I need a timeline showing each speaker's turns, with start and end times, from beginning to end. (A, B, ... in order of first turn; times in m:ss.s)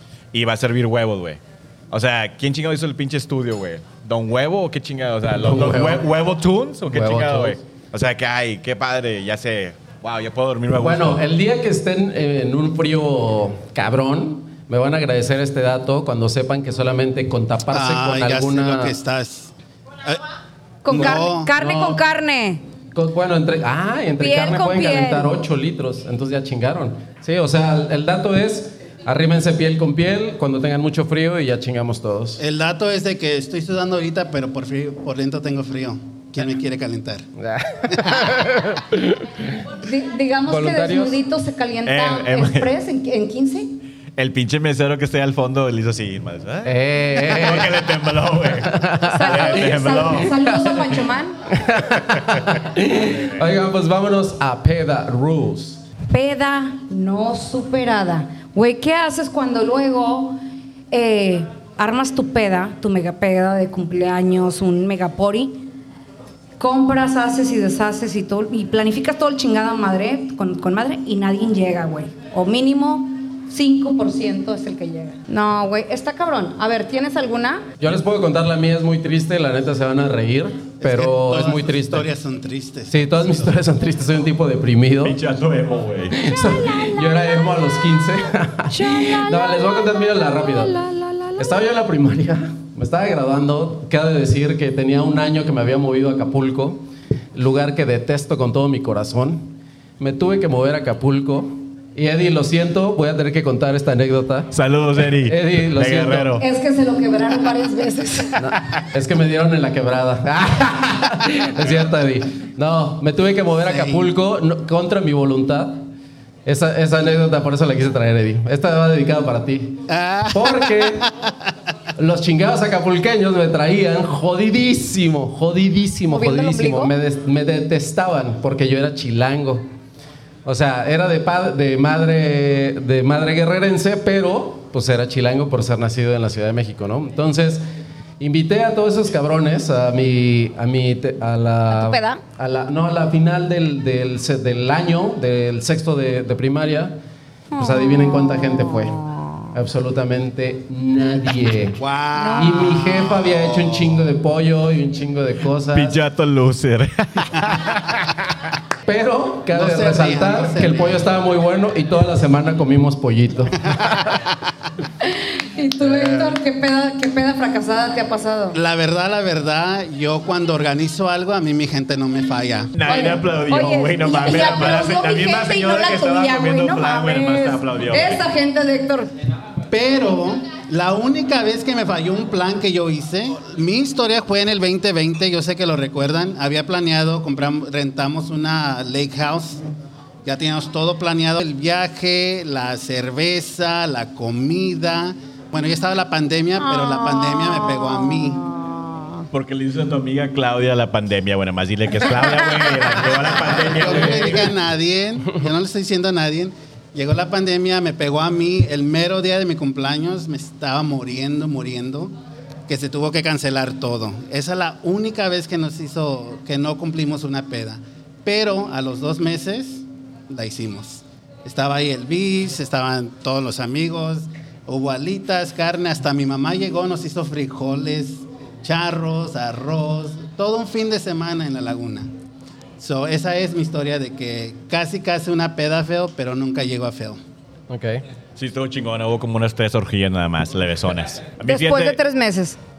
0:00.3-0:11.2 A
0:05.4-0:06.1 B
0:06.9-0:07.6 B
0:10.8-0:19.0 B
0:17.7-0:19.5 C
0:20.8-0:22.6 D
0:20.9-0:21.5 C
0:21.6-0:22.0 B
0:22.9-0:32.4 B
0:24.2-0:25.3 D
0:32.4-0:37.3 C
0:37.4-0:39.6 B
0:37.9-0:38.3 C
0:39.8-0:43.8 D
0:40.5-0:41.2 B
0:41.9-0:42.7 A
0:44.2-0:50.8 A
0:46.6-0:47.8 B
0:48.7-0:49.5 B
0:49.0-0:51.4 D
0:51.5-0:55.8 B
0:52.1-0:52.6 A
0:56.1-1:00.4 D
1:00.9-1:05.7 D
1:06.6-1:17.7 D
1:17.8-1:22.1 B
1:20.8-1:23.5 C
1:22.9-1:25.2 B
1:25.0-1:26.2 A
1:26.1-1:30.8 B
1:26.7-1:27.0 D
1:28.7-1:31.6 D
1:31.4-1:44.5 B
1:44.5-1:46.4 A
1:45.2-1:46.4 B
1:46.4-1:48.5 D
1:48.4-1:55.9 B
1:53.6-1:54.1 C
1:56.5-2:01.1 B
1:59.9-2:01.3 C
2:02.0-2:09.7 B
2:06.1-2:06.9 D
2:10.4-2:17.6 B
2:18.2-2:27.0 B
2:21.7-2:22.2 D
2:27.5-2:29.4 D
2:27.5-2:29.0 B
2:29.5-2:31.8 B
2:31.8-2:33.9 C
2:32.2-2:33.1 D
2:32.4-2:36.0 B
2:35.7-2:38.1 A
2:38.8-2:44.2 B
2:39.5-2:41.1 C
2:43.8-2:44.3 C
2:45.0-2:48.6 D
2:48.5-2:52.8 C
2:52.8-2:58.2 A
2:52.9-2:59.1 D
2:59.7-3:09.6 C
3:10.2-3:18.4 C
3:16.6-3:19.3 D
3:19.3-3:24.5 A
3:23.4-3:32.1 C
3:32.7-3:52.1 C
3:52.8-3:57.2 C
3:57.7-3:58.0 B
3:58.4-4:02.0 A
4:01.4-4:02.6 D